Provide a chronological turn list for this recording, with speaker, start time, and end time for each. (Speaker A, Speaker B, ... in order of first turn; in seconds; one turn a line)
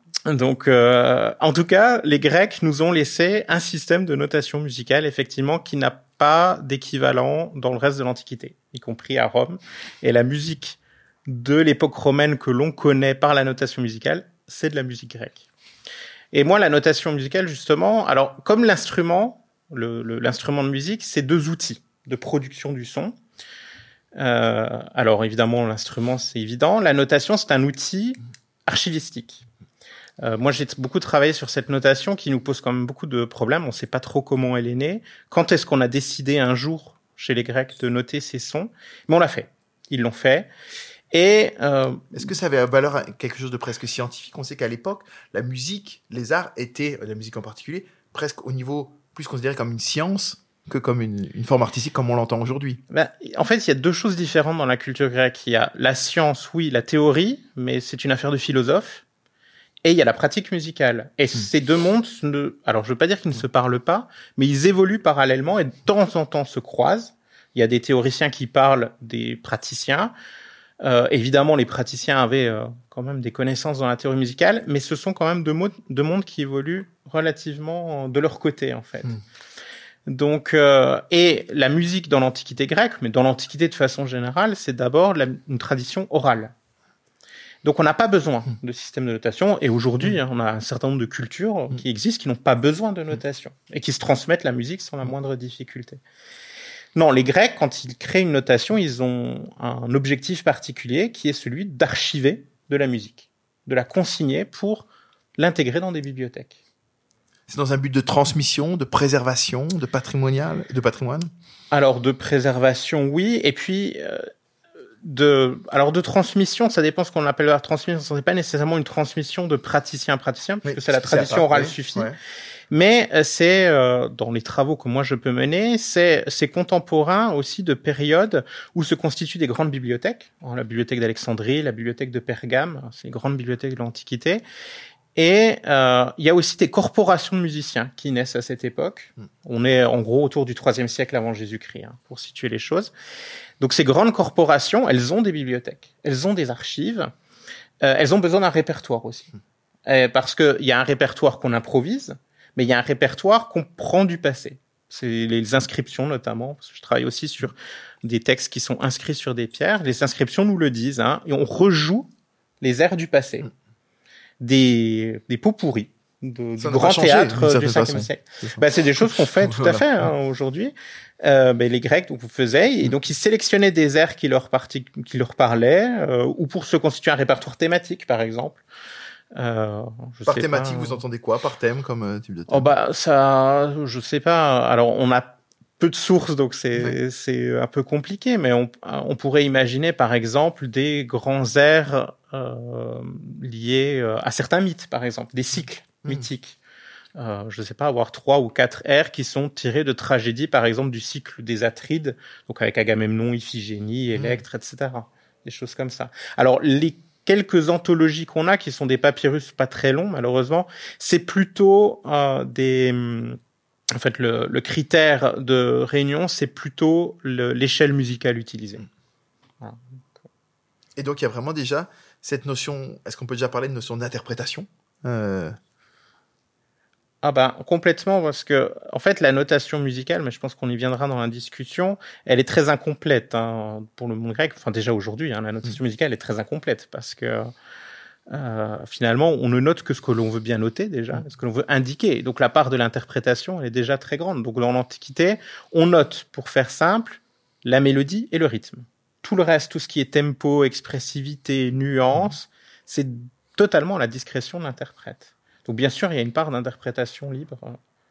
Speaker A: 0.2-15.4
Speaker A: 16.3-23.1
Speaker A: 24.1-29.4
Speaker A: 30.2-40.5
Speaker A: 41.1-42.1
Speaker B: 42.1-52.8
Speaker A: 52.9-59.0
Speaker A: 59.8-70.1
Speaker A: 70.8-79.2
Speaker A: 80.1-86.5
Speaker A: 87.6-96.0
Speaker A: 96.9-104.8
Speaker A: 105.4-106.6
Speaker B: 107.5-111.3
Speaker A: 111.7-114.3
Speaker A: 115.0-122.1
Speaker B: 120.6-122.2
Speaker A: 122.7-134.4
Speaker A: 135.1-142.9
Speaker A: 143.6-147.1
Speaker A: 147.8-149.3
Speaker A: 149.8-162.1
Speaker A: 162.6-163.5
Speaker A: 164.4-178.6
Speaker B: 166.6-169.8
Speaker A: 179.3-181.0
Speaker B: 180.2-182.7
Speaker A: 182.5-196.6
Speaker A: 197.2-213.4
Speaker B: 204.2-204.4
Speaker A: 213.9-218.8
Speaker B: 221.0-225.6
Speaker A: 227.2-237.5
Speaker A: 238.3-257.8